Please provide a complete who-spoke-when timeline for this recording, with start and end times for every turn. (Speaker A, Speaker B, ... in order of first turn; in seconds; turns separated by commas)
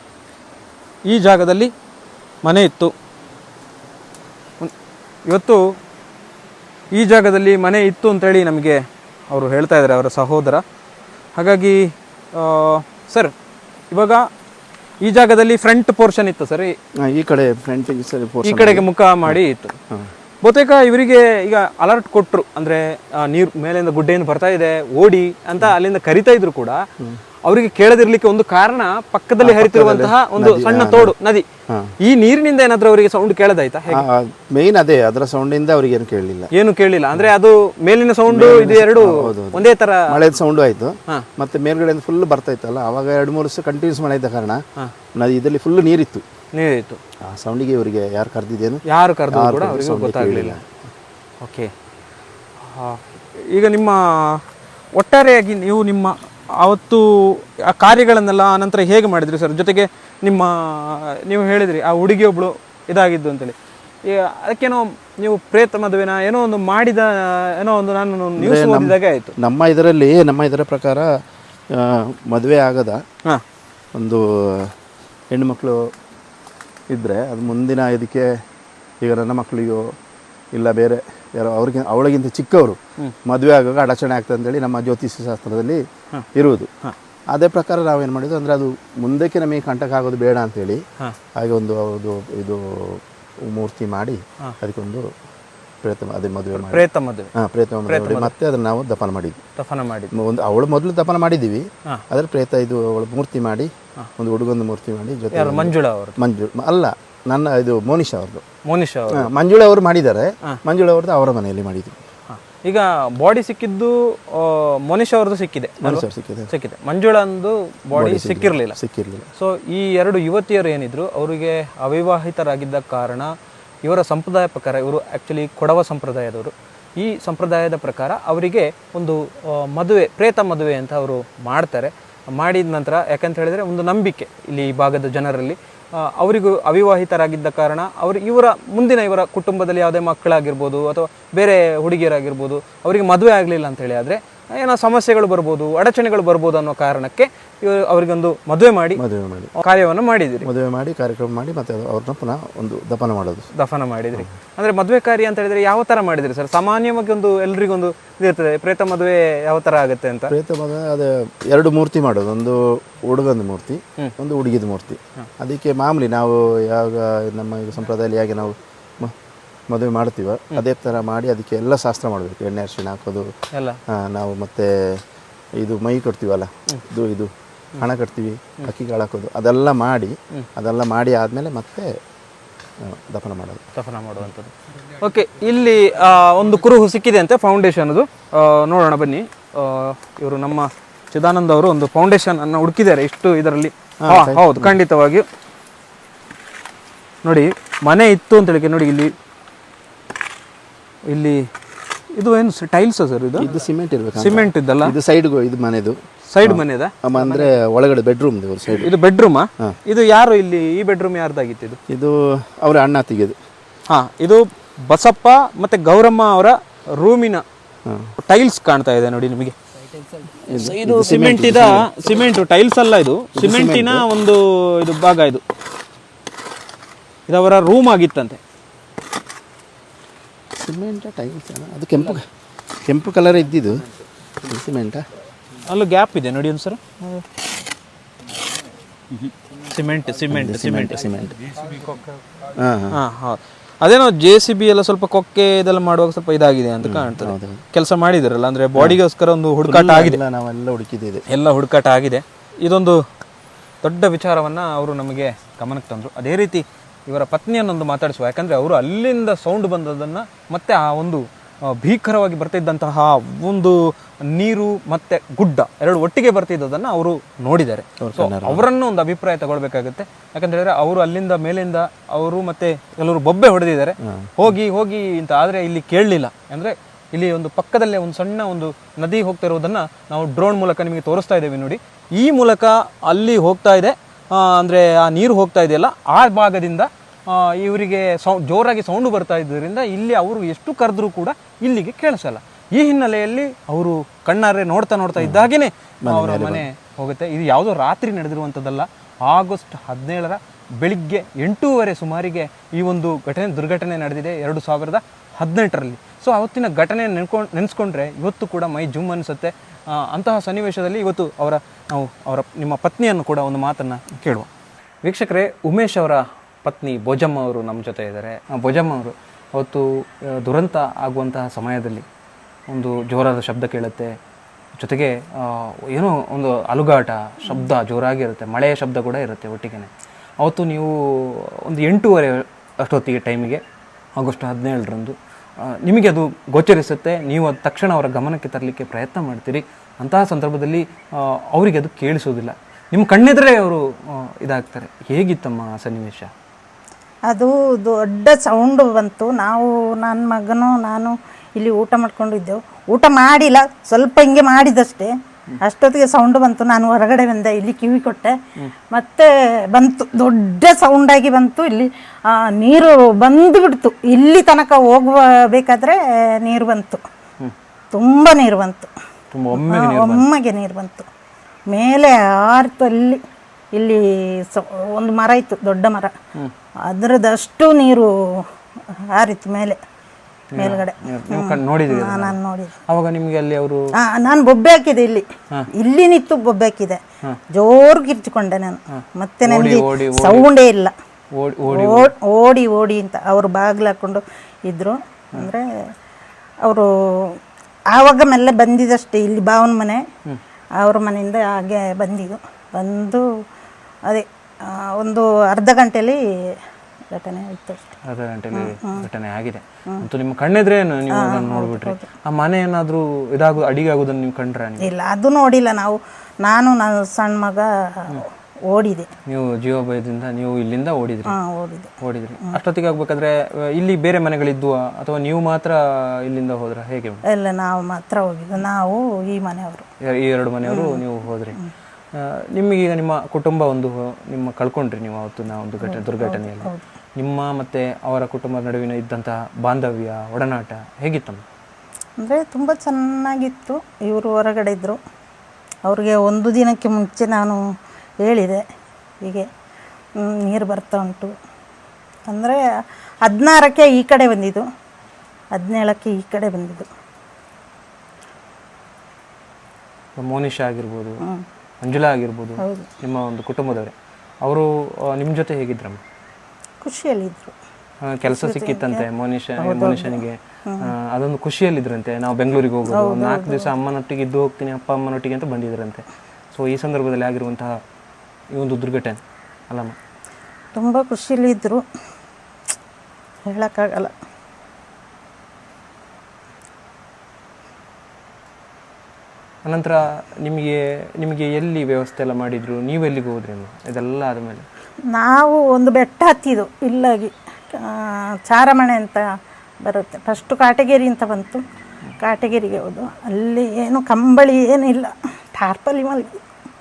Speaker A: 1.1-1.7, Speaker A: 2.4-2.9, Speaker A: 5.3-5.7, Speaker A: 6.9-10.6, Speaker A: 11.3-13.3, Speaker A: 13.9-14.3, Speaker A: 15.0-16.7, Speaker B: 17.0-19.4, Speaker A: 18.4-19.8, Speaker A: 20.4-26.8, Speaker A: 27.4-31.5, Speaker B: 29.4-31.1, Speaker B: 31.7-31.9, Speaker A: 32.0-34.0, Speaker B: 33.9-36.5, Speaker A: 36.5-40.2, Speaker B: 38.3-44.6, Speaker B: 45.1-46.2, Speaker A: 46.5-47.0, Speaker B: 47.2-50.6, Speaker A: 48.9-50.6, Speaker A: 51.4-51.7, Speaker A: 52.6-54.4, Speaker A: 54.9-69.4, Speaker B: 68.4-73.0, Speaker B: 73.9-74.7, Speaker B: 75.3-75.9, Speaker B: 76.9-78.3, Speaker B: 79.0-79.9, Speaker B: 80.5-85.8, Speaker B: 86.3-86.7, Speaker B: 87.3-90.8, Speaker B: 91.3-95.1, Speaker B: 95.8-99.4, Speaker A: 96.5-97.3, Speaker A: 97.9-98.3, Speaker A: 99.6-100.1, Speaker B: 100.1-108.4, Speaker A: 105.3-106.2, Speaker A: 108.6-109.3, Speaker B: 109.1-112.0, Speaker A: 112.3-118.8, Speaker B: 115.8-116.5, Speaker B: 117.9-119.3, Speaker A: 119.3-149.0, Speaker B: 148.9-149.6, Speaker A: 149.6-150.5, Speaker B: 150.4-153.5, Speaker A: 153.5-160.3, Speaker B: 160.3-169.1, Speaker B: 169.7-173.3, Speaker A: 173.5-173.8, Speaker B: 173.9-175.0, Speaker B: 175.6-181.9, Speaker B: 182.8-183.6, Speaker A: 183.7-195.2, Speaker B: 194.0-194.8, Speaker A: 197.2-199.1, Speaker A: 201.1-201.5, Speaker A: 202.1-203.5, Speaker B: 203.4-208.9, Speaker A: 204.2-204.9, Speaker A: 206.3-207.5, Speaker A: 208.7-211.8, Speaker B: 211.9-213.4, Speaker A: 213.9-217.4, Speaker B: 217.8-218.1, Speaker A: 218.2-219.6, Speaker B: 220.4-221.9, Speaker A: 220.6-225.4, Speaker B: 223.3-224.1, Speaker A: 227.3-228.4, Speaker B: 230.6-232.3, Speaker B: 232.8-233.9, Speaker B: 234.4-235.1, Speaker A: 235.6-237.2, Speaker A: 239.3-241.1, Speaker B: 240.3-241.4, Speaker B: 242.5-243.0, Speaker A: 242.9-250.2, Speaker B: 246.8-247.6, Speaker B: 249.6-251.2, Speaker A: 251.3-253.0, Speaker A: 253.8-314.5, Speaker B: 268.0-268.7, Speaker B: 274.0-274.3, Speaker B: 295.2-295.5, Speaker B: 296.0-296.6, Speaker A: 315.0-322.1, Speaker A: 322.7-324.2, Speaker A: 324.8-329.9, Speaker A: 330.4-333.6, Speaker A: 334.2-346.3, Speaker C: 347.3-358.4, Speaker C: 358.9-367.0, Speaker C: 367.9-368.9, Speaker A: 369.3-370.2, Speaker C: 369.5-371.1, Speaker C: 371.7-373.2, Speaker C: 373.7-376.1, Speaker C: 376.8-379.8, Speaker A: 380.5-382.4, Speaker C: 380.6-382.8, Speaker A: 382.9-383.8, Speaker C: 384.0-387.0, Speaker C: 387.5-390.9, Speaker A: 388.9-390.5, Speaker A: 391.3-392.1, Speaker C: 391.6-395.9, Speaker C: 396.6-397.4, Speaker C: 397.9-400.0, Speaker C: 400.8-403.3, Speaker C: 404.1-406.6, Speaker C: 407.1-407.9, Speaker A: 408.0-414.9, Speaker C: 408.5-409.1, Speaker C: 411.1-412.1, Speaker C: 414.8-419.1, Speaker A: 419.3-421.3, Speaker C: 421.3-421.9, Speaker A: 422.0-427.2, Speaker C: 427.2-429.9, Speaker A: 430.0-431.6, Speaker C: 430.7-431.0, Speaker A: 432.1-441.4, Speaker C: 435.8-436.8, Speaker C: 442.2-445.0, Speaker C: 445.9-447.6, Speaker C: 448.2-448.6, Speaker C: 449.2-449.5, Speaker C: 450.1-451.3, Speaker C: 452.3-452.6, Speaker C: 453.2-454.6, Speaker C: 455.5-456.9, Speaker A: 460.2-461.2, Speaker A: 461.8-466.0, Speaker C: 462.6-462.9, Speaker C: 466.8-467.6, Speaker A: 468.0-477.8, Speaker C: 468.3-469.1, Speaker C: 469.6-470.9, Speaker C: 472.9-473.7, Speaker A: 478.5-479.2, Speaker A: 479.7-479.9, Speaker C: 480.7-481.8, Speaker C: 483.4-484.1, Speaker A: 489.6-494.6, Speaker C: 495.1-499.3, Speaker C: 499.8-501.6, Speaker C: 502.2-506.4